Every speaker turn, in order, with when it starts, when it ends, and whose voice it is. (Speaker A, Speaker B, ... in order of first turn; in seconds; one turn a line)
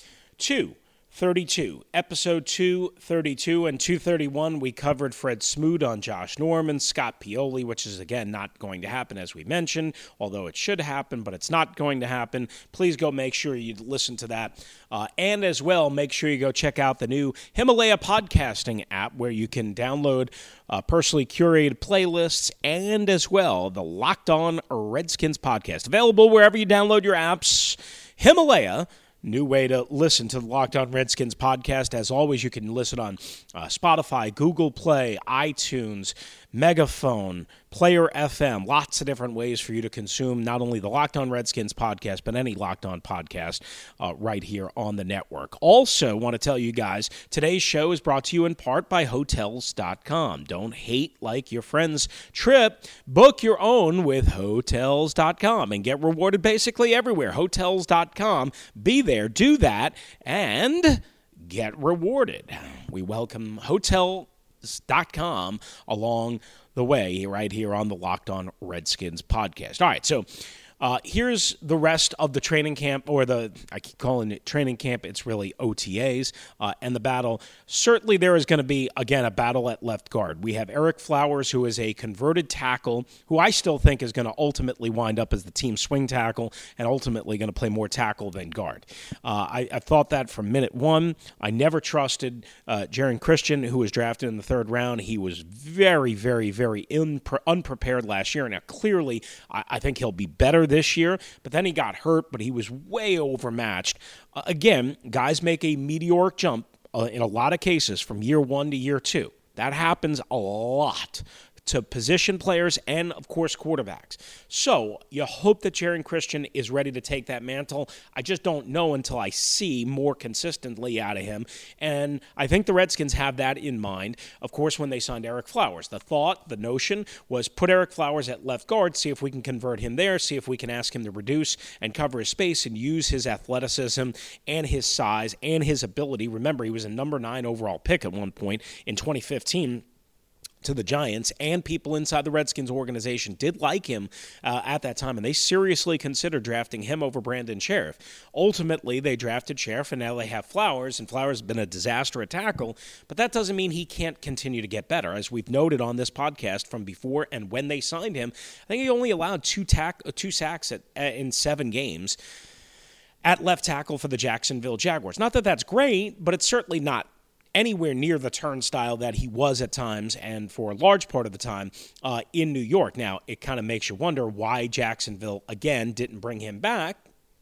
Speaker A: 0.4-139.8
Speaker A: 140.6-162.2
Speaker A: 163.2-177.0